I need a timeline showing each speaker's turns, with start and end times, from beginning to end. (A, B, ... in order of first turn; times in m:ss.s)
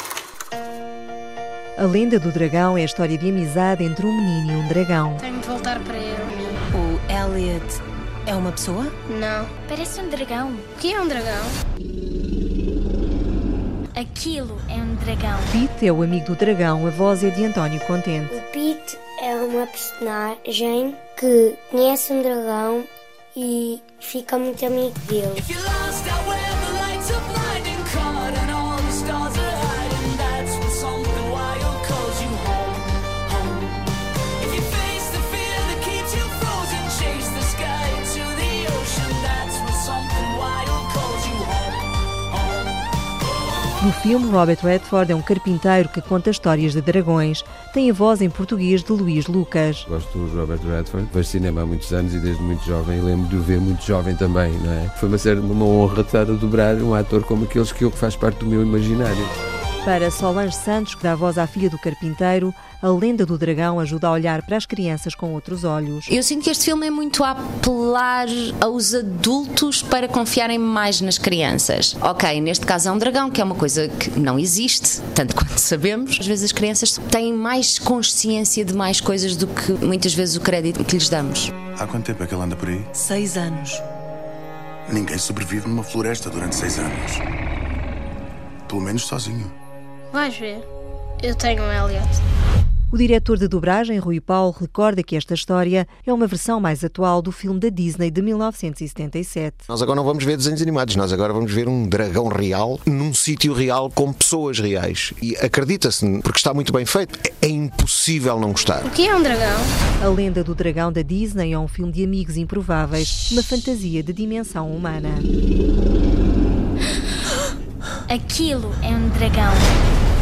0:01.8-0:05.2 A
0:05.2-0:06.6 B
0:06.7-0:07.7 C
0:08.3-0:08.9 C
0:09.1-0:09.5 B
0:09.6-0:10.7 D
0:10.8-0:11.6 B
0:14.0-0:15.5 D
0:15.5-0:18.4 A
0:18.3-0:25.4 E
0:25.4-0:33.8 F
0:34.4-0:42.7 F
0:43.8-0:49.8 A
0:49.9-0:59.3 G
0:59.8-1:06.1 A
1:06.1-1:21.5 H
1:21.8-1:22.9 I
1:23.0-1:23.8 C
1:24.9-1:27.2 I
1:28.7-1:29.5 I
1:30.1-1:30.6 B
1:31.2-1:32.2 B
1:32.9-1:39.7 A
1:39.7-1:48.9 J
1:48.8-1:49.7 B
1:50.0-1:55.3 A
1:58.1-1:59.7 D